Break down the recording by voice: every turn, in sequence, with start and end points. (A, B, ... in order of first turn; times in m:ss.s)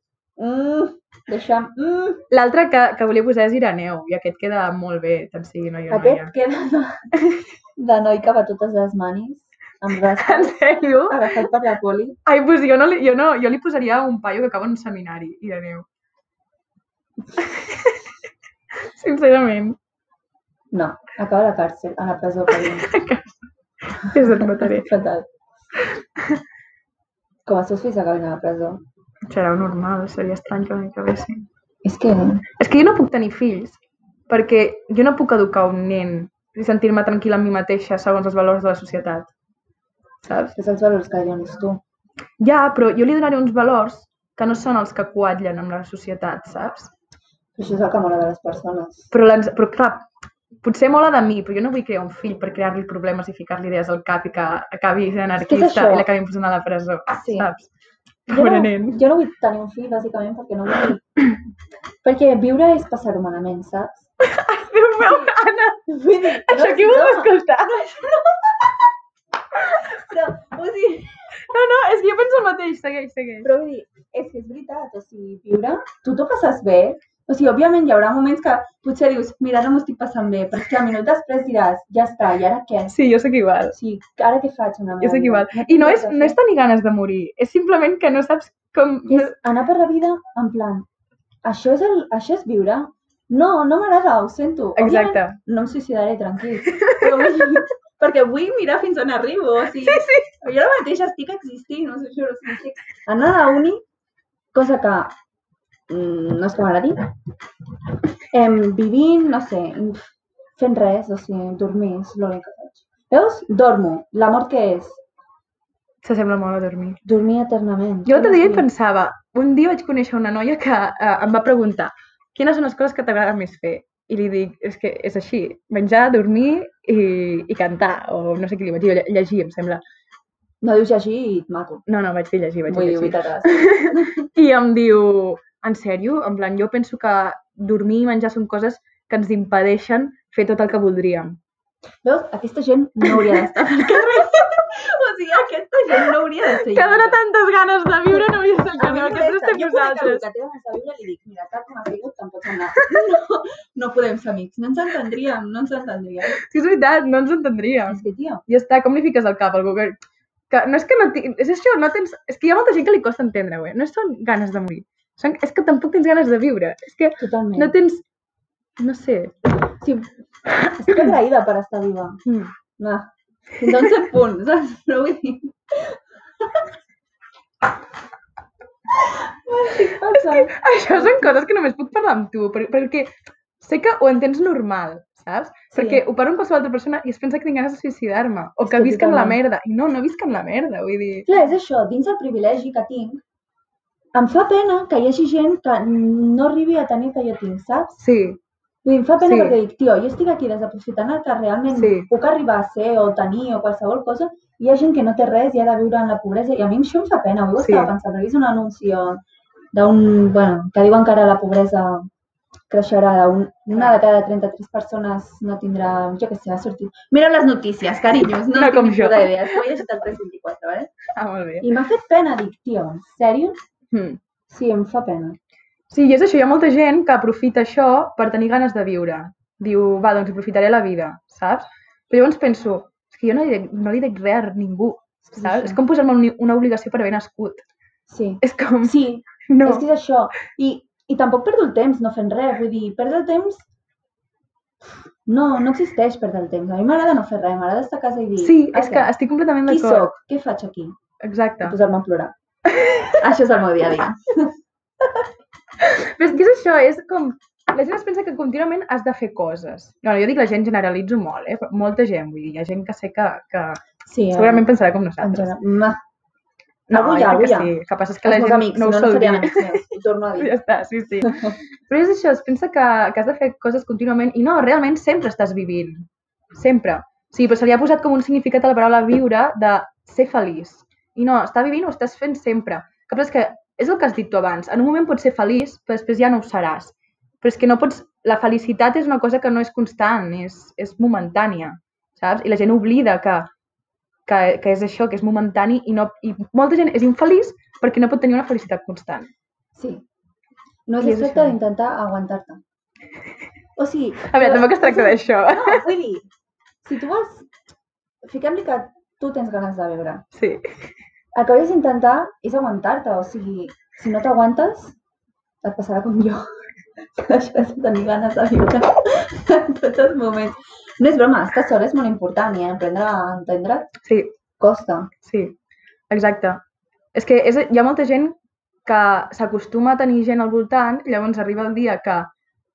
0:00.4-0:02.2 A
0:02.3-0:06.3 B
0:05.9-0:07.0 A
0:07.8-0:10.6 A
0:10.1-0:11.3 B
0:11.1-0:12.2 A
0:12.3-0:15.9 B
0:17.4-0:18.1 B
0:18.8-0:19.8 B
0:20.7-0:22.9 A
0:22.5-0:24.9 B
0:24.0-0:25.3 A
0:25.8-0:26.4 B
0:27.5-0:28.8 A
0:29.3-0:31.4 B
0:31.8-0:32.4 A
0:32.6-0:33.8 B
0:34.3-0:39.3 B
0:40.2-0:40.5 B
0:40.6-0:41.8 A
0:42.4-0:46.9 B
0:47.6-0:49.1 A
0:49.1-0:50.1 B
0:50.6-0:57.7 B
0:55.4-0:56.1 A
0:57.1-0:57.5 A
0:58.3-0:59.0 B
0:58.3-1:01.0 A
1:02.0-1:04.1 A
1:04.2-1:05.8 B
1:05.0-1:05.3 A
1:05.9-1:08.8 A
1:06.4-1:08.1 B
1:09.6-1:11.4 A
1:11.4-1:13.5 B
1:13.4-1:23.0 A
1:22.9-1:23.8 B
1:23.7-1:26.4 A
1:25.0-1:29.4 B
1:29.1-1:30.9 A
1:31.4-1:43.8 A
1:34.8-1:35.4 B
1:36.7-1:37.6 B
1:39.8-1:40.3 B
1:44.5-1:45.1 A
1:45.9-1:47.0 A
1:48.3-1:55.0 A
1:56.0-1:57.0 B
1:57.0-1:58.7 A
1:58.1-2:09.8 B
2:10.6-2:11.8 A
2:11.9-2:21.4 B
2:12.7-2:14.3 A
2:22.0-2:27.2 A
2:23.0-2:24.6 B
2:26.5-2:30.2 B
2:28.1-2:36.4 A
2:36.3-2:40.0 B
2:37.9-2:38.4 A
2:40.5-2:48.0 B
2:47.2-2:47.7 A
2:48.8-2:49.4 B
2:49.7-2:50.1 A
2:50.6-2:52.2 A
2:50.9-2:51.1 B
2:52.3-2:52.5 B
2:52.8-2:56.7 A
2:59.1-3:01.4 A
2:59.8-3:11.3 B
3:05.7-3:06.0 A
3:08.6-3:09.4 A
3:11.3-3:13.2 A
3:14.2-3:17.9 A
3:18.0-3:18.4 B
3:18.8-3:29.2 A
3:19.2-3:19.6 B
3:21.7-3:22.1 B
3:27.6-3:27.9 B
3:29.7-3:32.1 A
3:32.7-3:40.9 A
3:38.5-3:39.6 B
3:41.1-3:41.7 B
3:41.6-3:43.6 A
3:43.9-3:44.2 B
3:44.5-3:45.4 A
3:45.9-3:57.6 B
3:55.3-3:55.8 A
3:58.1-4:03.7 A
3:58.4-3:59.8 B
4:05.3-4:09.1 A
4:08.4-4:10.1 B
4:09.7-4:10.9 A
4:11.2-4:11.8 B
4:11.6-4:12.3 A
4:12.7-4:13.2 B
4:13.1-4:14.5 A
4:15.8-4:25.6 B
4:24.1-4:24.7 A
4:25.2-4:26.0 A
4:26.9-4:29.8 B
4:26.9-4:27.7 A
4:28.2-4:30.6 A
4:30.4-4:53.5 B
4:31.3-4:31.6 A
4:54.3-4:59.3 B
4:59.8-5:00.0 A
5:00.9-5:02.6 A
5:01.0-5:01.6 B
5:03.8-5:06.3 A
5:04.2-5:05.8 B
5:06.8-5:07.5 A
5:08.3-5:10.2 A
5:10.3-5:10.6 B
5:11.4-5:15.0 A
5:15.6-5:16.4 A
5:17.2-5:23.9 A
5:24.0-5:24.4 B
5:24.6-5:25.1 A
5:25.2-5:25.6 B
5:26.1-5:26.6 B
5:27.1-5:32.3 B